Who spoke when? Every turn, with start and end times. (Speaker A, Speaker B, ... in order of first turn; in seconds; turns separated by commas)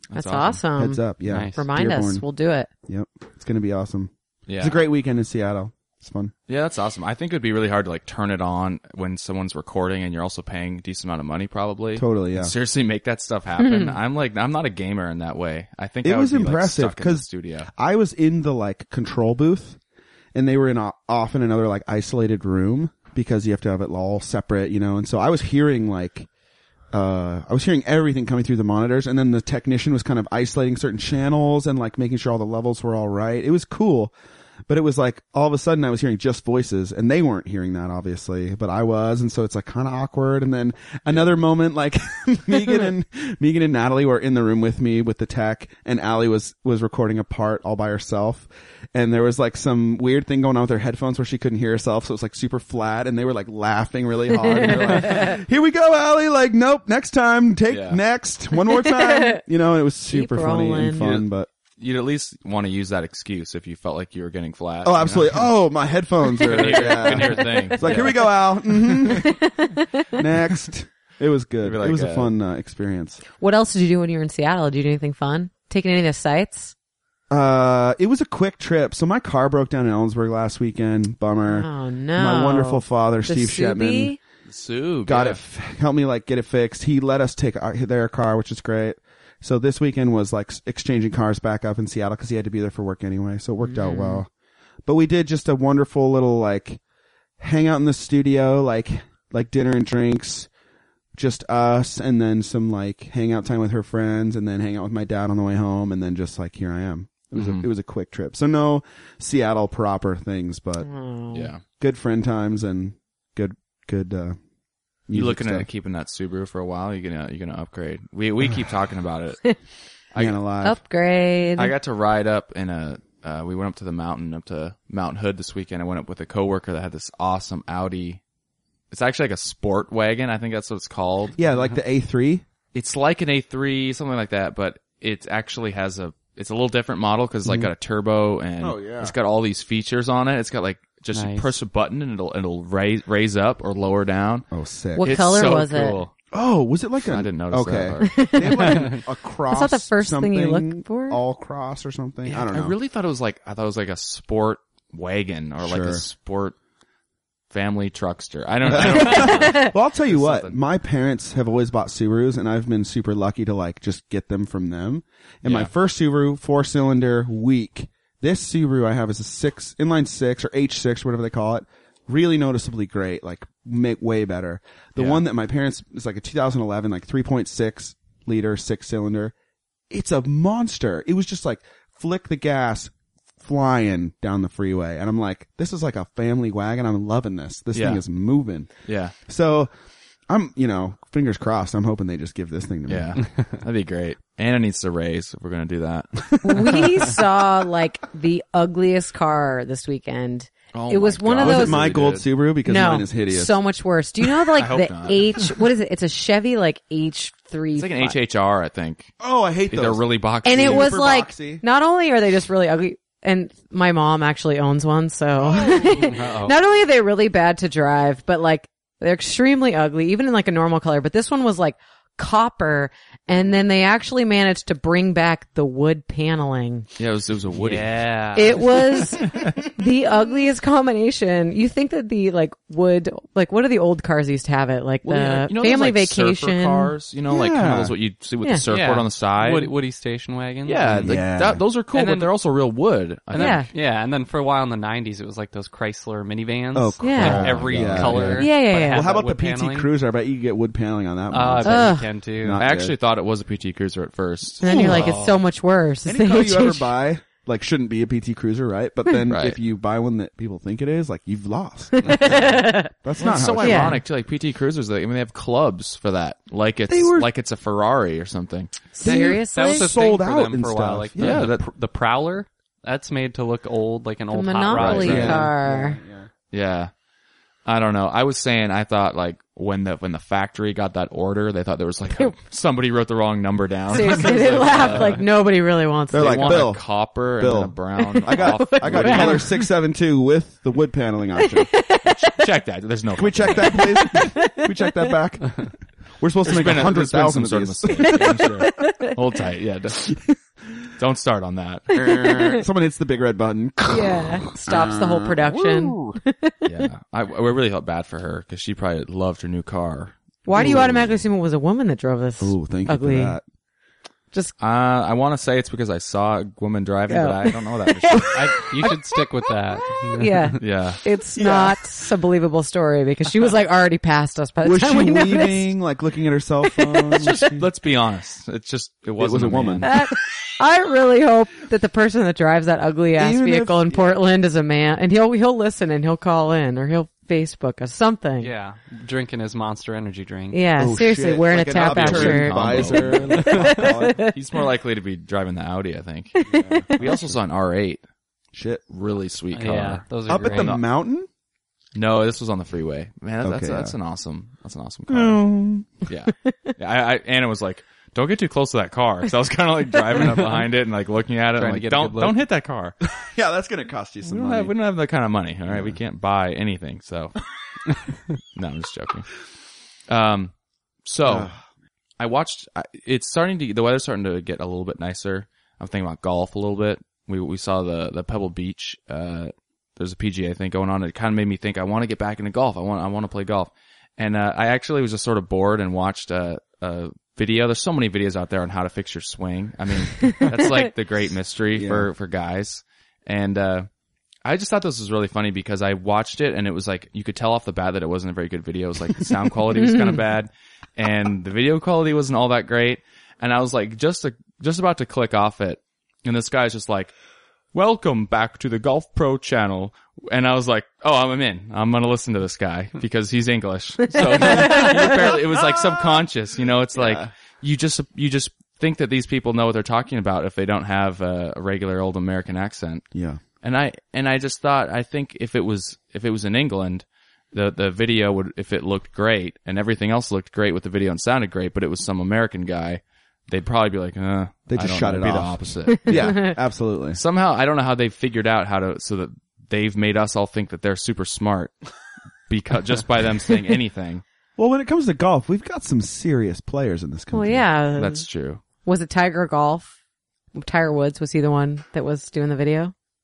Speaker A: 0.1-0.6, Speaker B: 0.1-2.7, Speaker C: 0.8-2.2, Speaker D: 1.3-1.6, Speaker C: 2.9-6.3, Speaker A: 4.5-4.8, Speaker A: 6.5-17.7, Speaker C: 12.0-12.5, Speaker B: 13.6-14.0, Speaker C: 16.0-19.8, Speaker C: 20.3-26.3, Speaker C: 26.9-34.1, Speaker C: 34.7-61.5, Speaker B: 54.5-55.4, Speaker A: 57.7-58.0, Speaker B: 58.6-59.4, Speaker B: 60.1-61.1, Speaker A: 61.0-61.3, Speaker A: 61.8-65.5, Speaker C: 64.8-69.4, Speaker A: 66.4-68.5, Speaker B: 66.4-68.3, Speaker B: 68.9-70.2, Speaker C: 70.1-73.2, Speaker A: 71.6-72.3, Speaker B: 73.3-76.7, Speaker C: 77.3-84.1, Speaker B: 81.5-84.2, Speaker A: 84.5-85.4, Speaker C: 85.1-94.3, Speaker B: 93.7-94.2, Speaker C: 94.8-96.8, Speaker C: 97.4-100.5, Speaker C: 101.2-110.9, Speaker A: 107.3-107.7, Speaker B: 110.8-111.5, Speaker A: 111.3-111.6, Speaker C: 111.8-114.4, Speaker C: 115.1-115.7, Speaker A: 115.1-119.5, Speaker A: 120.1-120.4, Speaker C: 120.2-120.8, Speaker B: 120.6-121.7, Speaker A: 121.6-128.2, Speaker A: 128.9-131.4, Speaker C: 131.4-132.4, Speaker A: 132.7-144.5, Speaker C: 138.6-139.2, Speaker D: 141.1-141.5, Speaker C: 144.5-145.5, Speaker B: 145.0-146.0, Speaker A: 145.0-146.1, Speaker C: 146.3-152.8, Speaker A: 147.1-148.4, Speaker B: 148.0-149.0, Speaker D: 148.6-149.0, Speaker B: 149.5-151.2, Speaker A: 152.3-156.6, Speaker C: 155.6-156.0, Speaker A: 157.5-160.6, Speaker C: 158.7-179.3, Speaker B: 158.9-159.7, Speaker A: 165.4-165.7, Speaker A: 175.0-175.2, Speaker C: 179.9-188.7, Speaker A: 187.7-188.0, Speaker A: 188.9-189.2, Speaker C: 189.3-189.7, Speaker C: 190.3-193.2, Speaker A: 192.9-196.8, Speaker C: 196.2-197.2, Speaker B: 196.4-201.9, Speaker A: 200.7-202.2, Speaker C: 201.4-203.5, Speaker B: 202.7-208.2, Speaker A: 204.6-205.5, Speaker A: 207.8-209.1, Speaker C: 209.2-211.6, Speaker A: 209.7-211.0, Speaker B: 210.4-226.9, Speaker C: 215.4-216.3, Speaker D: 215.9-216.6, Speaker A: 227.0-228.0, Speaker D: 227.6-229.4, Speaker B: 228.3-236.9, Speaker A: 235.1-239.7, Speaker C: 237.3-237.9, Speaker D: 238.7-241.1, Speaker A: 240.7-243.7, Speaker C: 241.0-241.6, Speaker D: 241.9-242.3, Speaker D: 243.3-249.9, Speaker B: 243.3-243.7, Speaker C: 246.7-252.9, Speaker B: 247.0-247.4, Speaker A: 247.2-248.5, Speaker B: 248.4-249.1, Speaker D: 251.3-252.6, Speaker B: 251.6-252.1, Speaker A: 252.6-255.1, Speaker B: 254.6-256.9, Speaker C: 254.6-255.1, Speaker D: 254.7-255.4, Speaker C: 256.1-264.0, Speaker A: 259.3-259.6, Speaker B: 261.9-262.9, Speaker A: 263.2-268.9, Speaker B: 263.6-264.0, Speaker C: 266.9-267.3, Speaker B: 269.0-269.9, Speaker C: 269.0-271.5, Speaker D: 269.0-275.5, Speaker A: 271.2-271.6, Speaker B: 274.3-276.0, Speaker A: 274.7-275.5, Speaker C: 275.0-276.3, Speaker A: 276.5-276.9, Speaker A: 277.7-285.2, Speaker B: 283.9-286.7, Speaker D: 284.1-285.2, Speaker C: 284.1-284.4, Speaker C: 286.1-286.9, Speaker A: 286.1-289.5, Speaker C: 287.4-291.7, Speaker B: 288.0-289.6, Speaker B: 291.4-292.5, Speaker A: 292.1-293.9, Speaker C: 293.2-298.6, Speaker B: 293.7-295.1, Speaker A: 296.4-300.1, Speaker C: 300.1-300.4, Speaker A: 301.0-302.0, Speaker B: 301.9-302.6, Speaker C: 301.9-306.2, Speaker B: 303.9-306.9, Speaker A: 306.6-311.1, Speaker B: 310.4-313.4, Speaker C: 310.5-311.1, Speaker C: 312.4-313.4, Speaker A: 314.6-318.7, Speaker B: 317.1-325.7, Speaker D: 318.3-320.6, Speaker A: 320.6-321.0, Speaker C: 321.4-321.8, Speaker C: 324.6-327.7, Speaker B: 326.7-327.1, Speaker A: 327.1-329.9, Speaker C: 329.2-330.0, Speaker B: 329.8-338.5, Speaker C: 333.2-334.1, Speaker D: 338.4-340.6, Speaker B: 340.5-342.8, Speaker C: 340.8-344.3, Speaker A: 341.7-348.0, Speaker B: 343.4-344.3, Speaker B: 346.4-347.0, Speaker C: 346.4-347.4, Speaker C: 348.5-348.8, Speaker A: 348.9-350.8, Speaker D: 349.5-350.8, Speaker C: 350.3-351.3, Speaker A: 351.9-362.9, Speaker C: 353.4-353.9, Speaker C: 355.1-355.9, Speaker D: 360.1-360.6, Speaker D: 361.6-362.4, Speaker C: 363.1-364.7, Speaker A: 364.2-367.4, Speaker C: 365.7-366.0, Speaker A: 368.5-369.3, Speaker A: 370.1-370.5, Speaker A: 371.1-371.5, Speaker C: 371.2-371.6, Speaker A: 372.2-393.9, Speaker C: 391.8-392.1, Speaker A: 394.4-407.1, Speaker B: 399.8-400.2, Speaker A: 407.7-423.1, Speaker B: 414.1-415.3, Speaker C: 414.4-416.2, Speaker C: 416.9-417.3, Speaker C: 423.1-423.4, Speaker A: 423.6-436.5, Speaker C: 434.7-437.2, Speaker B: 435.9-436.5, Speaker A: 437.1-441.7, Speaker A: 442.5-444.2, Speaker C: 444.6-447.6, Speaker B: 447.3-448.2, Speaker A: 448.0-448.6, Speaker B: 448.8-449.9, Speaker B: 450.5-452.9